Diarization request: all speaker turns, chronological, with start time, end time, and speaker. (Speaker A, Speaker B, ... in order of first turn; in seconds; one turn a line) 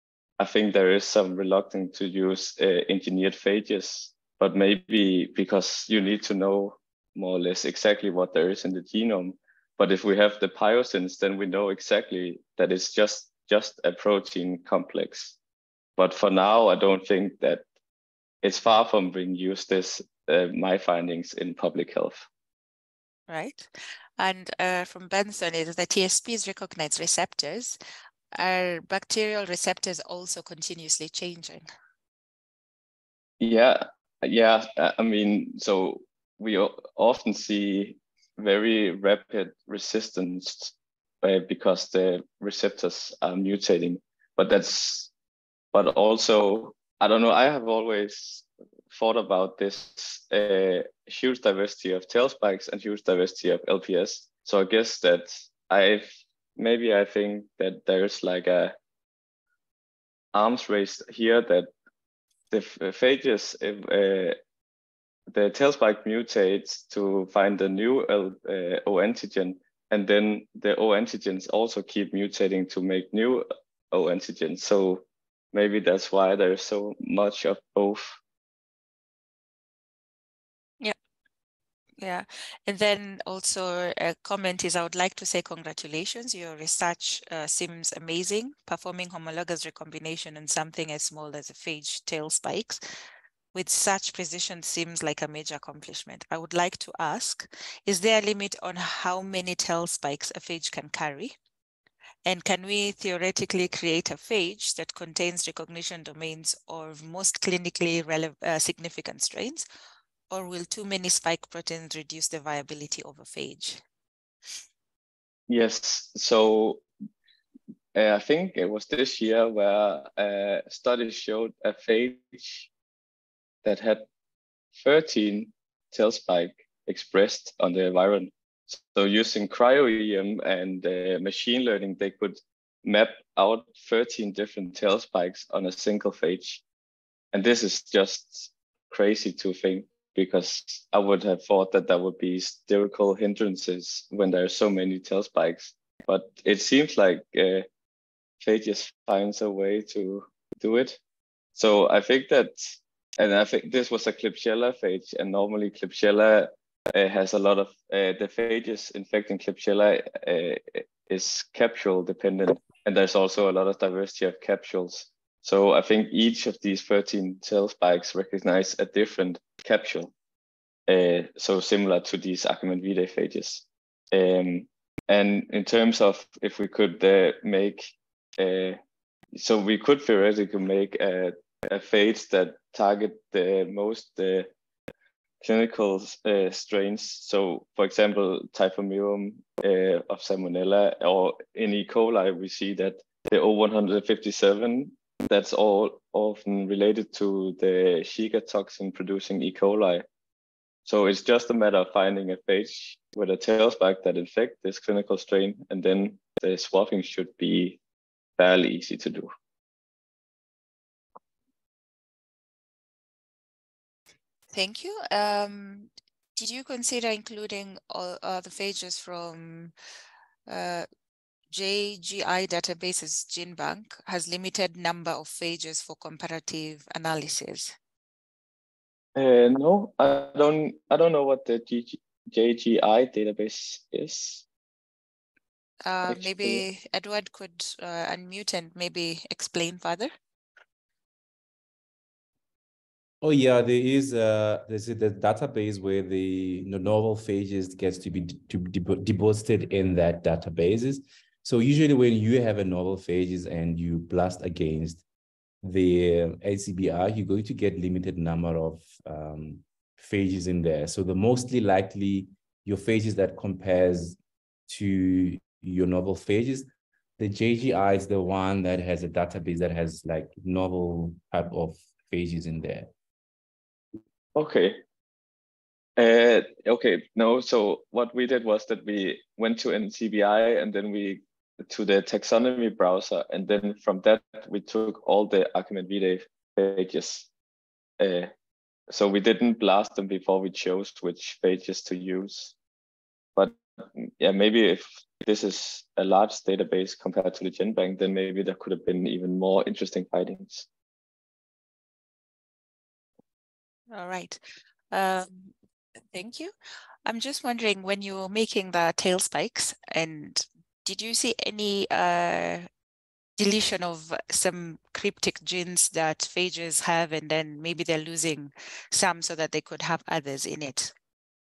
Speaker A: 0.4-15.4
Speaker A: 16.0-17.6
Speaker A: 18.4-22.3
Speaker B: 23.3-27.8
Speaker B: 28.3-31.6
Speaker A: 33.4-45.1
Speaker A: 45.7-58.7
Speaker A: 60.3-61.7
Speaker A: 62.5-64.3
Speaker A: 65.3-78.2
Speaker B: 82.0-92.8
Speaker B: 93.5-101.3
Speaker B: 102.2-109.6
Speaker B: 110.3-113.8
Speaker A: 115.5-116.8
Speaker A: 117.9-122.7
Speaker A: 123.6-124.0
Speaker A: 124.7-136.6
Speaker A: 137.3-147.7
Speaker A: 148.4-151.0
Speaker A: 151.5-170.1
Speaker A: 170.9-178.8
Speaker A: 179.3-184.5
Speaker A: 185.4-200.0
Speaker A: 200.8-207.8
Speaker A: 208.4-209.3
Speaker B: 214.5-219.7
Speaker B: 220.5-220.8
Speaker B: 221.5-227.7
Speaker A: 229.2-234.4
Speaker B: 235.8-240.1
Speaker A: 236.1-236.6
Speaker C: 243.2-255.0
Speaker C: 255.6-266.7
Speaker C: 267.2-272.9
Speaker A: 274.3-274.8
Speaker A: 276.0-287.3
Speaker A: 288.0-288.3
Speaker A: 288.9-292.5
Speaker A: 293.3-300.7
Speaker B: 303.9-304.4
Speaker B: 304.9-305.5
Speaker B: 306.1-306.5
Speaker B: 307.0-312.7
Speaker B: 313.4-320.9